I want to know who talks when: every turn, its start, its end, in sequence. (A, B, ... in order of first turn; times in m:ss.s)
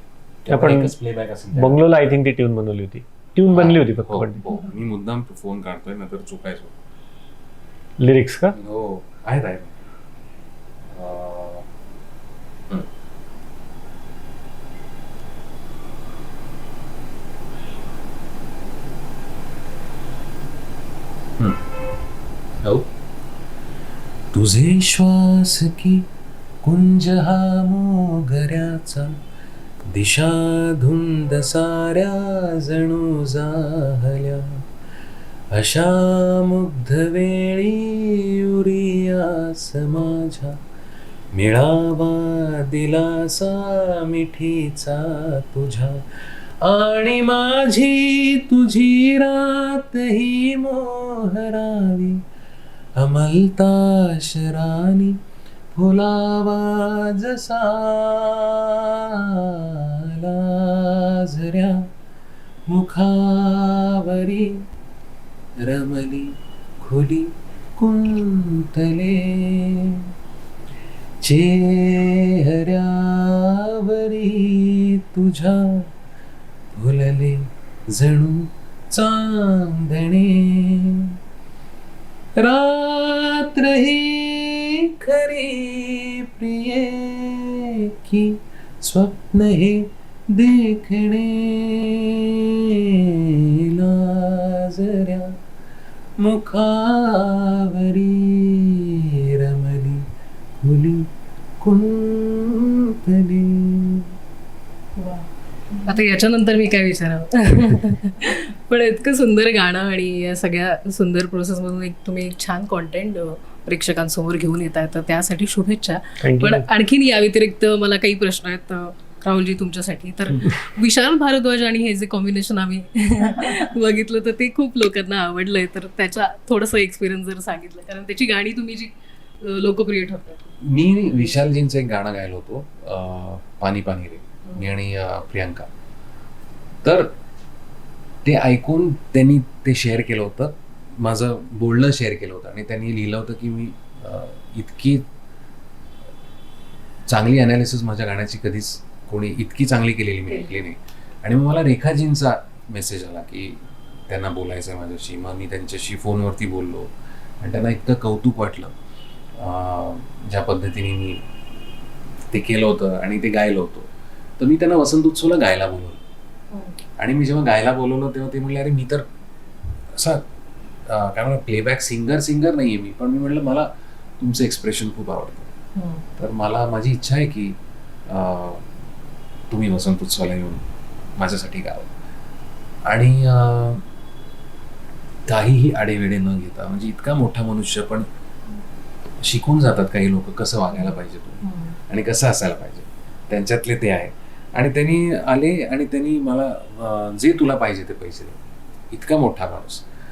0:00.4-0:01.9 A
0:00.5-0:00.9 B
0:01.5-0:04.4 B
0:03.5-0:06.7 A
0:08.0-0:08.6 B
0:08.5-0:09.7 A
0:10.9-0:11.6 A
0:24.3-0:26.0 A
0:26.6-0:29.2 A
0:29.8-0:34.6 A
0:35.5-0:40.6 A
0:41.3-0:46.0 A
0:46.6-0:52.2 A
0:53.0-0:55.2 A
0:55.7-1:01.9 A
1:02.7-1:04.6 A
1:05.6-1:10.0 A
1:11.2-1:15.8 A
1:16.8-1:21.1 A
1:22.4-1:32.3 A
1:33.1-1:35.3 A
1:36.2-1:40.0 A
1:40.6-1:41.1 A
1:41.6-1:44.1 A
1:45.0-1:45.3 C
1:45.8-2:10.5 C
1:56.2-1:56.7 B
2:10.6-2:15.7 A
2:16.8-2:17.2 A
2:18.2-2:25.0 A
2:27.1-2:38.7 A
2:30.3-2:30.6 C
2:39.4-2:41.2 A
2:42.3-2:43.9 A
2:44.4-2:46.0 A
2:46.5-2:46.8 C
2:47.0-2:49.0 A
2:49.9-2:50.2 A
2:50.9-2:55.5 A
2:55.8-2:56.0 C
2:56.2-2:58.7 A
2:59.5-3:00.6 A
3:01.2-3:01.9 A
3:02.8-3:03.8 A
3:05.2-3:08.1 A
3:09.2-3:18.4 A
3:11.4-3:11.8 C
3:18.9-3:19.8 A